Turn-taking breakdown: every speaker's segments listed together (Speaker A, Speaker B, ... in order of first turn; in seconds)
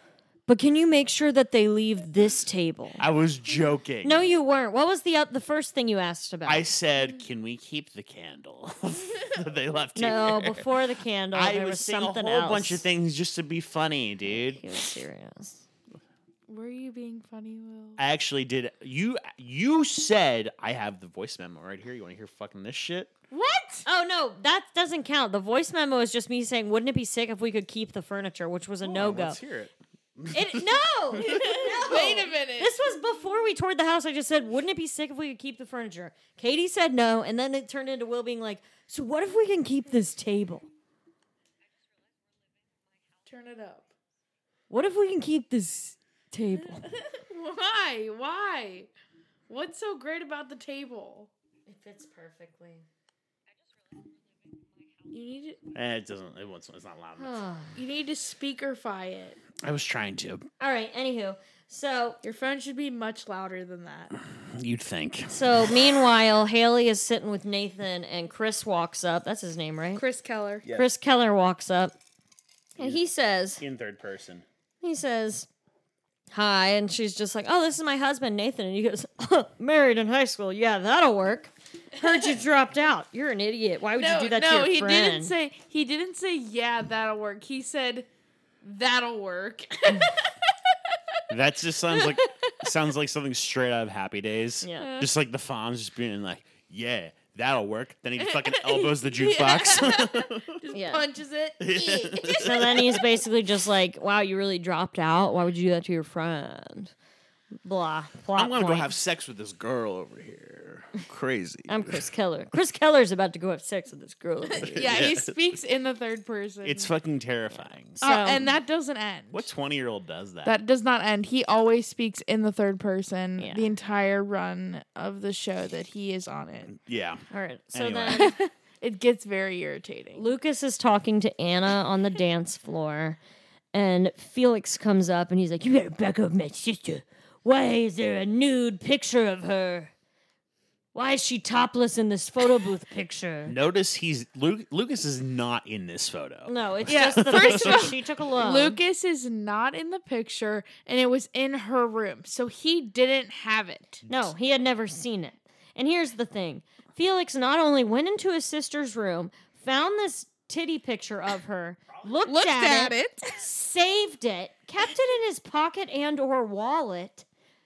Speaker A: 0.5-3.0, 4.0-6.7, 10.0-12.8, 14.4-15.7, 23.9-29.4, 30.3-40.7, 44.7-46.9, 51.7-52.8, 57.2-57.8, 60.6-62.2, 65.3-70.0, 70.7-72.0, 72.8-73.6, 74.8-75.5, 76.3-85.3, 100.7-101.1, 102.4-106.9, 107.7-108.9, 111.7-115.0, 118.0-118.4, 123.4-123.7, 127.3-128.4, 130.2-133.2, 133.7-139.9, 140.9-143.6, 146.5-148.8, 154.1-167.2
Speaker B: 3.0-4.3, 6.5-10.7, 11.3-14.6, 18.0-23.1, 28.8-31.5, 55.7-57.4, 59.6-60.5, 64.5-65.3, 73.6-74.5, 91.3-100.6, 101.6-102.8, 108.4-112.1, 114.6-115.3, 116.6-118.0, 119.3-120.6, 126.7-128.3, 143.5-148.0, 154.1-154.3
Speaker C: 16.5-18.0, 23.3-23.9, 31.2-32.9, 43.3-43.9, 46.8-48.9, 49.5-51.3, 55.1-55.6, 57.8-59.4, 62.2-64.2, 70.0-70.7, 84.0-88.1, 88.6-90.3, 91.9-92.5, 94.8-95.1, 98.2-103.0, 114.6-116.9, 118.0-119.5, 120.5-126.7, 128.1-130.2, 146.9-154.0, 162.3-163.4